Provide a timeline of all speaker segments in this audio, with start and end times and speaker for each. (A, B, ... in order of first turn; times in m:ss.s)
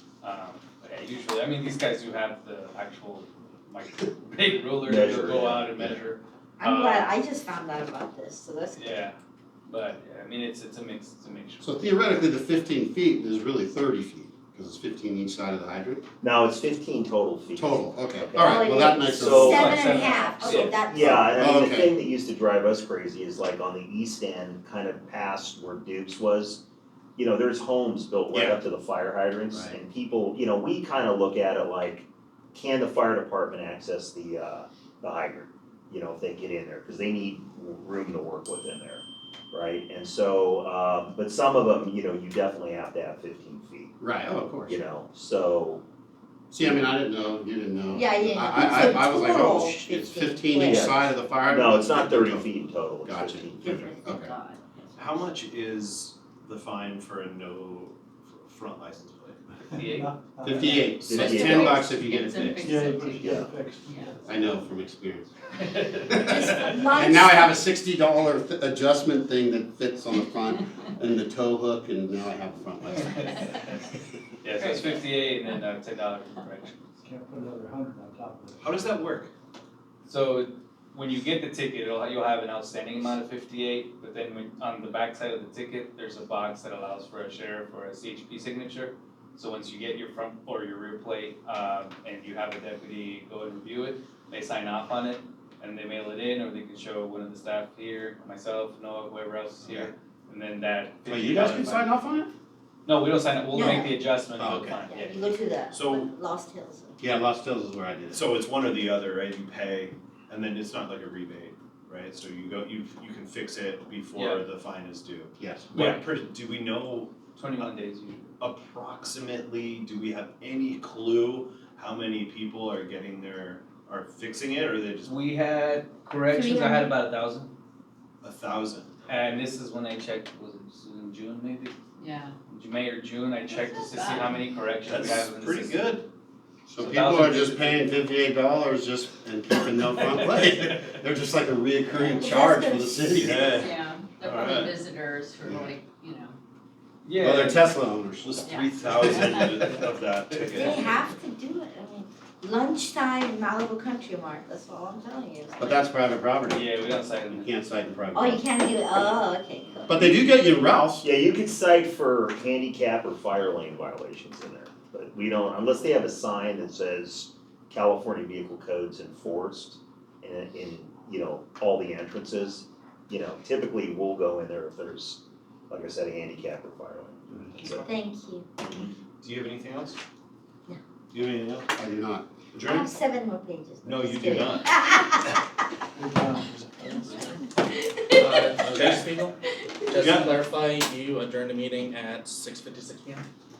0:00.2-0:07.1 A
0:04.8-0:06.0 B
0:06.6-0:09.0 C
0:08.7-0:09.2 A
0:09.7-0:11.8 A
0:11.6-0:16.0 D
0:16.2-0:26.6 B
0:17.6-0:19.8 D
0:18.4-0:21.0 C
0:19.2-0:20.8 A
0:21.0-0:21.9 D
0:27.2-0:44.0 B
0:29.5-0:29.8 D
0:44.0-0:44.8 D
0:44.7-0:45.8 B
0:46.5-0:54.3 D
0:47.9-0:50.8 C
0:50.6-0:53.9 B
0:53.7-0:54.6 C
0:55.0-0:59.7 E
0:59.7-1:00.2 A
1:00.4-1:02.9 D
1:00.9-1:02.0 B
1:01.6-1:04.1 F
1:02.9-1:04.5 G
1:03.2-1:03.5 B
1:04.2-1:05.3 D
1:05.6-1:06.9 A
1:06.1-1:13.3 D
1:06.2-1:07.6 C
1:13.0-1:13.8 A
1:14.4-1:16.9 A
1:14.6-1:15.0 F
1:17.0-1:19.0 G
1:18.6-1:19.3 E
1:20.0-1:41.9 A
1:41.0-1:42.3 D
1:42.8-1:45.3 A
1:43.5-1:43.9 C
1:44.4-1:44.8 E
1:44.9-1:46.9 C
1:45.7-1:46.1 E
1:47.0-1:48.3 D
1:48.1-1:57.7 E
1:54.1-1:54.5 A
1:55.4-1:55.8 D
1:55.7-1:56.1 A
1:57.3-1:58.3 A
1:58.4-2:05.1 E
2:05.0-2:07.5 A
2:06.3-2:06.9 C
2:08.2-2:08.9 E
2:09.1-2:11.7 A
2:12.0-2:12.4 F
2:12.5-2:16.0 A
2:13.5-2:14.4 F
2:14.8-2:16.0 E
2:16.7-2:23.6 D
2:16.8-2:17.8 A
2:20.2-2:21.0 E
2:22.1-2:23.3 C
2:23.1-2:24.8 E
2:23.4-2:26.4 F
2:25.4-2:25.7 D
2:27.0-2:27.7 A
2:27.2-2:29.5 D
2:28.2-2:31.0 E
2:28.4-2:29.6 F
2:30.5-2:35.7 C
2:35.6-2:38.4 D
2:36.5-2:37.5 A
2:38.1-2:40.2 C
2:39.9-2:41.0 D
2:41.0-2:57.9 B
2:57.3-2:57.8 E
2:57.9-2:58.4 C
2:58.6-2:58.9 B
2:59.2-3:00.0 E
3:01.1-3:01.7 E
3:01.7-3:02.4 D
3:02.5-3:02.9 E
3:02.7-3:05.0 C
3:03.8-3:05.3 E
3:06.0-3:06.4 G
3:07.0-3:07.3 H
3:08.1-3:13.2 H
3:08.7-3:09.0 E
3:10.0-3:10.4 E